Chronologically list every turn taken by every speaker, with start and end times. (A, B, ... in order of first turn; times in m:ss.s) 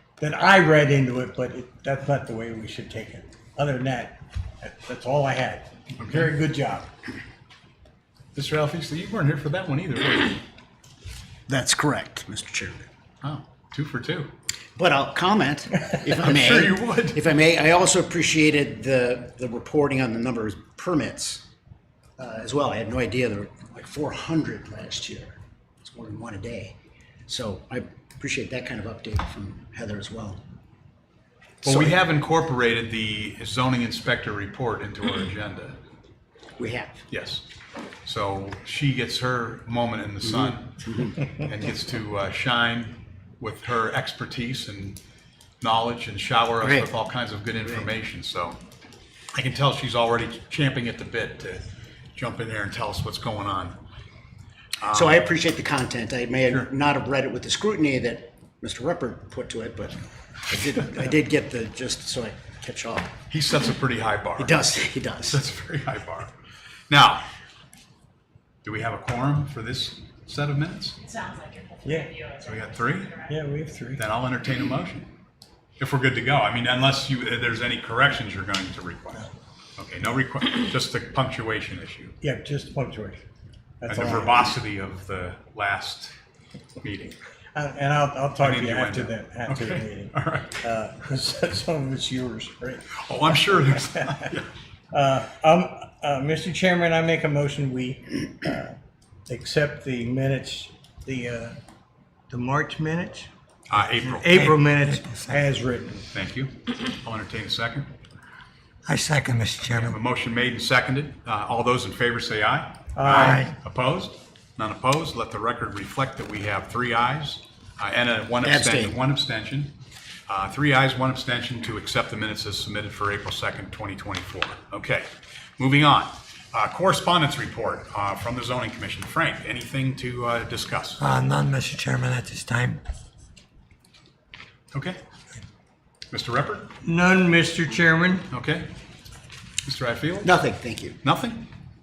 0:00.2-0:06.9 A
0:06.0-0:06.3 B
0:08.3-0:10.4 B
0:11.5-0:12.8 C
0:13.2-0:14.3 B
0:14.8-0:21.4 C
0:16.1-0:17.2 B
0:22.2-0:26.7 C
0:27.3-0:30.4 C
0:31.6-0:32.0 C
0:31.6-0:35.8 B
0:36.6-0:37.0 C
0:37.1-0:37.4 B
0:38.0-0:45.0 B
0:40.4-0:41.2 C
0:45.6-0:48.6 B
0:46.6-0:46.9 C
0:49.3-0:51.6 B
0:52.1-0:53.8 B
0:54.8-0:55.2 B
0:54.9-1:03.1 C
1:03.3-1:04.6 B
1:04.4-1:05.4 C
1:05.2-1:06.3 B
1:06.9-1:07.2 B
1:08.6-1:11.0 B
1:11.8-1:12.2 A
1:12.4-1:13.1 B
1:13.2-1:14.0 A
1:14.0-1:15.1 B
1:15.8-1:22.1 B
1:22.2-1:23.2 A
1:23.8-1:24.6 A
1:23.9-1:26.1 B
1:26.8-1:27.2 B
1:27.5-1:34.2 A
1:28.4-1:30.6 B
1:33.0-1:34.5 B
1:34.9-1:38.8 A
1:39.3-1:41.6 A
1:42.3-1:43.3 A
1:43.7-1:44.4 B
1:44.0-1:46.1 A
1:44.3-1:45.3 D
1:46.1-1:47.9 B
1:48.8-1:50.0 D
1:49.7-1:59.7 B
1:52.9-1:53.5 A
1:53.2-1:53.5 D
1:58.4-1:58.9 C
2:00.3-2:11.0 B
2:11.0-2:12.8 D
2:14.7-2:15.0 B
2:16.1-2:16.7 B
2:16.8-2:18.3 A
2:18.3-2:18.7 B
2:19.6-2:20.3 B
2:20.2-2:21.0 C
2:21.0-2:21.4 B